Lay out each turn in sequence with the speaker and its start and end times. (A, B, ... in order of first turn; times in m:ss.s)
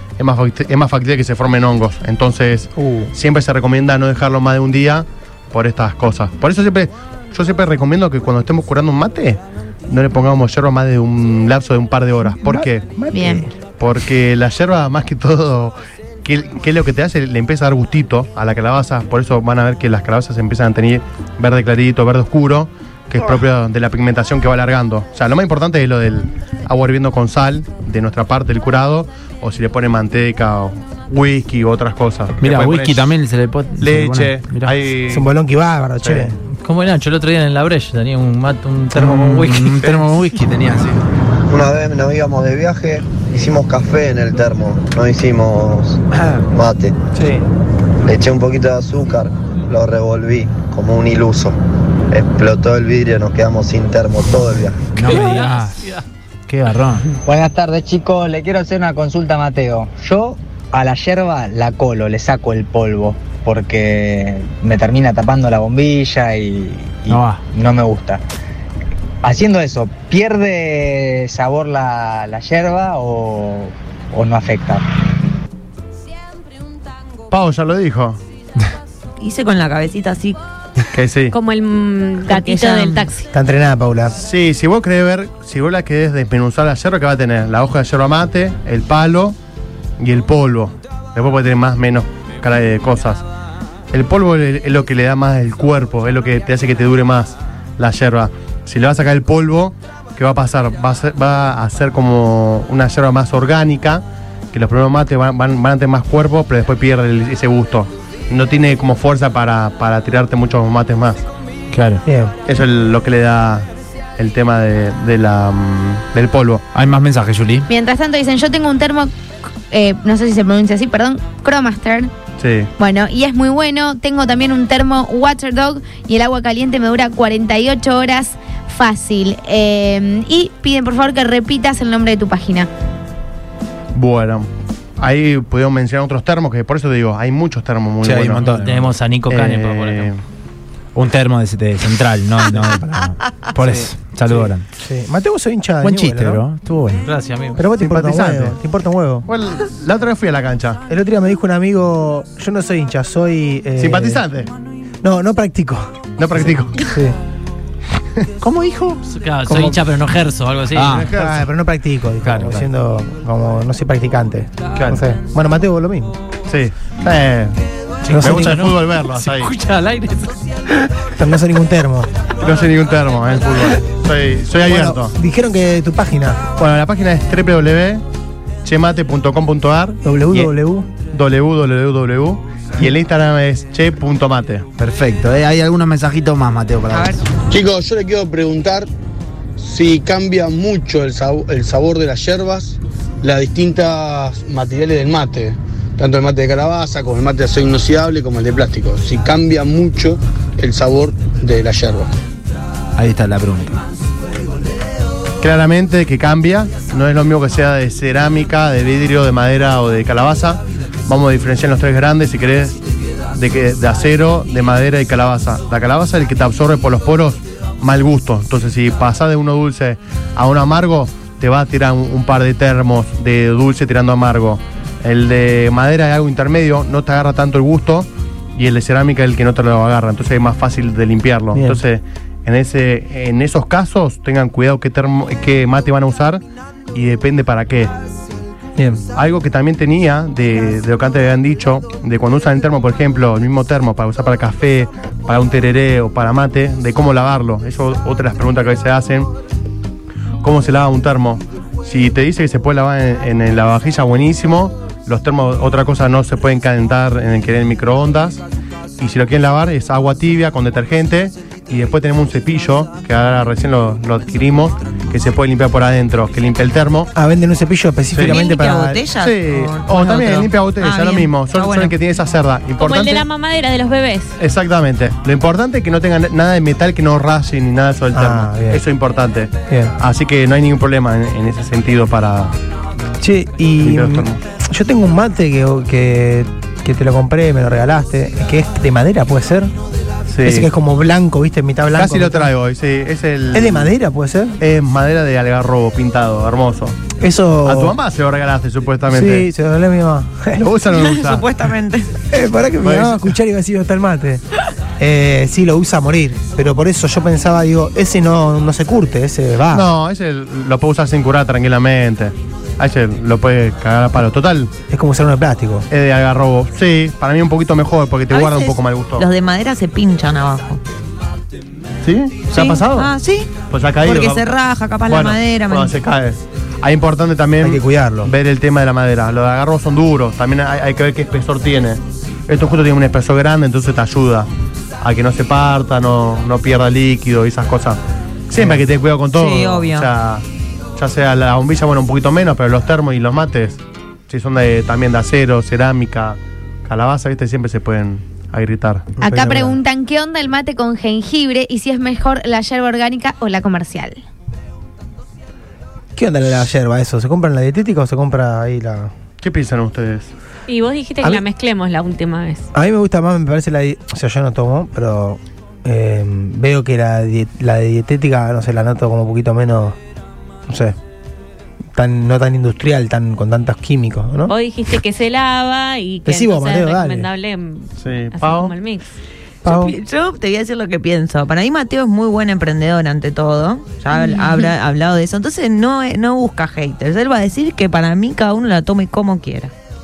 0:00.2-0:12.9 A
0:02.8-0:03.1 B
0:12.3-0:13.5 B
0:13.1-0:13.4 C
0:13.7-0:33.1 A
0:32.4-0:34.7 D
0:33.8-0:35.3 A
0:35.1-0:36.3 B
0:36.0-0:36.3 A
0:36.6-0:40.1 E
0:38.9-0:41.0 D
0:41.5-0:47.0 F
0:47.2-0:47.4 B
0:48.0-0:51.6 F
0:52.1-0:54.8 F
0:54.9-0:55.9 D
0:55.0-0:56.0 E
0:56.5-0:57.0 D
0:57.2-1:08.2 G
1:07.1-1:07.4 D
1:09.2-1:14.8 G
1:17.3-1:18.2 A
1:19.2-1:20.4 H
1:20.9-1:21.3 A
1:21.3-1:23.3 I
1:22.2-1:23.1 H
1:23.3-1:24.1 B
1:24.1-1:29.4 A
1:30.0-1:33.2 A
1:33.9-1:51.2 A
1:51.7-1:52.0 D
1:52.0-1:52.3 B
1:52.4-1:56.6 A
1:56.7-1:57.7 D
1:57.7-1:59.1 C
1:59.7-2:02.1 C
2:02.4-2:02.7 A
2:02.8-2:12.7 C
2:13.9-2:18.5 A
2:18.0-2:18.9 D
2:18.5-2:20.1 E
2:19.3-2:20.2 A
2:20.9-2:24.6 D
2:24.3-2:26.4 B
2:25.8-2:27.0 D
2:27.0-2:27.6 E
2:27.6-2:29.3 B
2:27.8-2:28.6 A
2:29.3-2:30.8 A
2:30.9-2:34.2 B
2:33.8-2:34.5 A
2:35.0-2:36.0 B
2:36.2-2:36.9 A
2:36.8-2:37.2 B
2:38.4-2:39.0 D
2:39.1-2:41.2 E
2:39.5-2:39.8 B
2:40.7-2:41.1 D
2:40.9-2:41.4 A
2:41.1-2:46.2 B
2:42.2-2:42.5 D
2:46.5-2:47.6 A
2:48.1-2:48.7 B
2:48.1-2:50.4 E
2:48.2-2:49.5 A
2:51.1-2:52.1 B
2:52.4-2:55.1 A
2:54.6-2:56.4 B
2:56.6-2:58.0 A
2:58.6-3:04.6 A
3:00.0-3:00.9 B
3:04.8-3:07.2 D
3:06.9-3:07.2 H
3:07.5-3:08.9 J
3:09.6-3:22.1 J
3:23.0-3:23.8 D
3:25.4-3:32.8 A
3:33.3-3:56.4 A
3:51.5-3:51.8 B
3:56.9-3:57.9 A
3:58.8-3:59.0 B
3:59.1-4:09.3 A
4:10.4-4:18.4 A
4:19.0-4:27.1 A
4:27.1-4:29.0 B
4:28.1-4:28.4 A
4:28.2-4:31.9 H
4:29.1-4:33.2 A
4:32.8-4:34.4 I
4:34.4-4:42.5 A
4:38.1-4:38.8 B
4:39.7-4:39.9 B
4:43.2-4:49.7 B
4:43.8-4:44.4 A
4:50.3-4:50.7 A
4:50.4-4:52.5 B
4:51.9-4:53.9 A
4:53.5-4:54.6 B
4:54.6-4:57.0 A
4:57.2-4:58.0 B
4:57.6-4:59.4 A
4:59.1-5:00.7 B
5:00.6-5:01.5 A
5:00.9-5:02.2 H
5:02.3-5:04.4 B
5:02.8-5:03.3 A
5:05.0-5:09.9 B
5:09.7-5:14.7 A
5:14.9-5:15.9 B
5:15.9-5:19.3 A
5:18.3-5:20.8 H
5:22.0-5:24.5 A
5:22.5-5:26.0 H
5:25.0-5:34.5 A
5:27.6-5:28.3 B
5:35.0-5:40.4 A
5:39.3-5:40.1 H
5:41.0-5:49.1 A
5:49.2-5:49.8 B
5:49.2-5:54.2 C
5:56.2-5:59.1 B
5:59.4-6:00.3 A
6:00.7-6:02.7 I
6:02.7-6:10.0 B
6:10.7-6:11.0 B
6:11.9-6:14.5 B
6:14.5-6:19.0 I
6:16.2-6:17.3 B
6:18.0-6:18.7 A
6:19.6-6:19.9 B
6:19.6-6:29.7 H